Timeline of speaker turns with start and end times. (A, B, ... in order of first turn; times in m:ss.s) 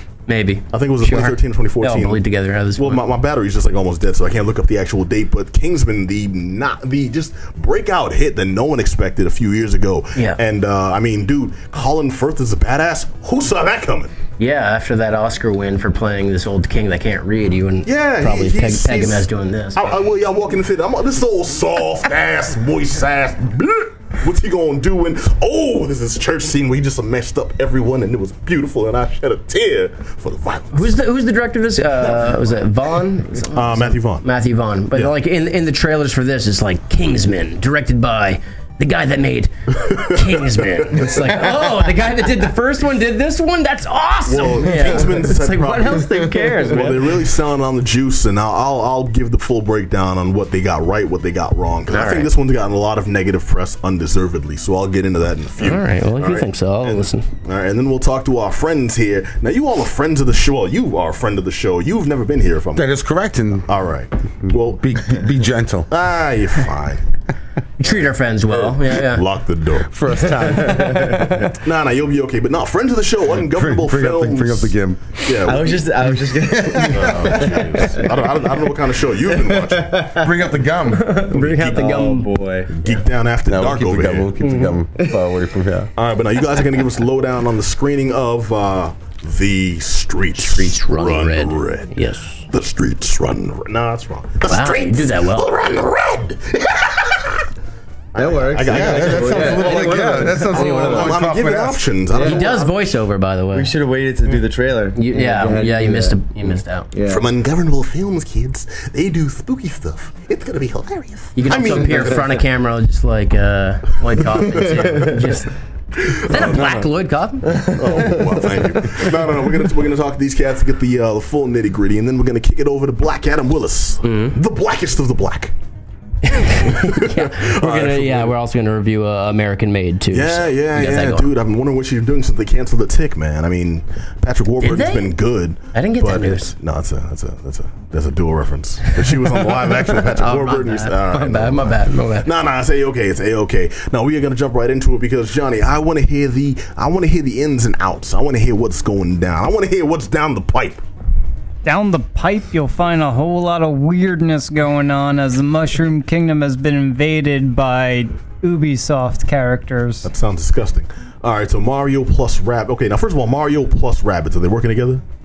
0:00.3-0:03.0 A
0:00.7-0:02.2 B
0:02.8-0:14.1 B
0:14.4-0:20.0 A
0:17.9-0:30.9 B
0:30.7-0:47.3 A
0:33.6-0:34.2 B
0:39.8-0:41.6 B
0:44.3-1:02.9 B
0:51.9-0:52.3 A
0:55.6-0:57.3 A
1:02.8-1:03.7 C
1:03.7-1:04.9 B
1:04.4-1:05.9 C
1:05.9-1:07.0 B
1:07.8-1:09.2 A
1:08.5-1:09.9 B
1:09.9-1:11.4 C
1:10.8-1:11.5 A
1:11.5-1:20.1 B
1:13.3-1:18.0 C
1:15.4-1:18.1 D
1:19.3-1:20.3 D
1:20.2-1:21.2 C
1:20.9-1:22.3 A
1:21.3-1:22.7 D
1:22.8-1:24.3 B
1:23.5-1:25.9 C
1:24.4-1:24.8 A
1:25.0-1:25.2 D
1:26.0-1:32.0 B
1:30.4-1:32.4 A
1:32.5-1:37.5 B
1:34.4-1:35.5 A
1:38.1-1:42.7 B
1:38.2-1:41.2 D
1:38.6-1:42.0 C
1:42.1-1:42.5 D
1:42.2-1:43.7 A
1:43.5-1:46.2 D
1:45.0-1:46.9 A
1:46.9-1:47.3 D
1:47.1-1:52.3 B
1:51.4-1:55.5 A
1:54.4-1:55.4 B
1:56.0-1:56.9 B
1:56.2-1:58.2 A
1:57.7-2:05.5 B
2:04.0-2:04.4 A
2:06.2-2:11.3 A
2:06.3-2:08.3 B
2:10.1-2:30.8 B
2:14.6-2:15.2 A
2:15.7-2:16.5 A
2:19.0-2:22.3 A
2:31.6-2:40.1 E
2:40.0-2:45.0 B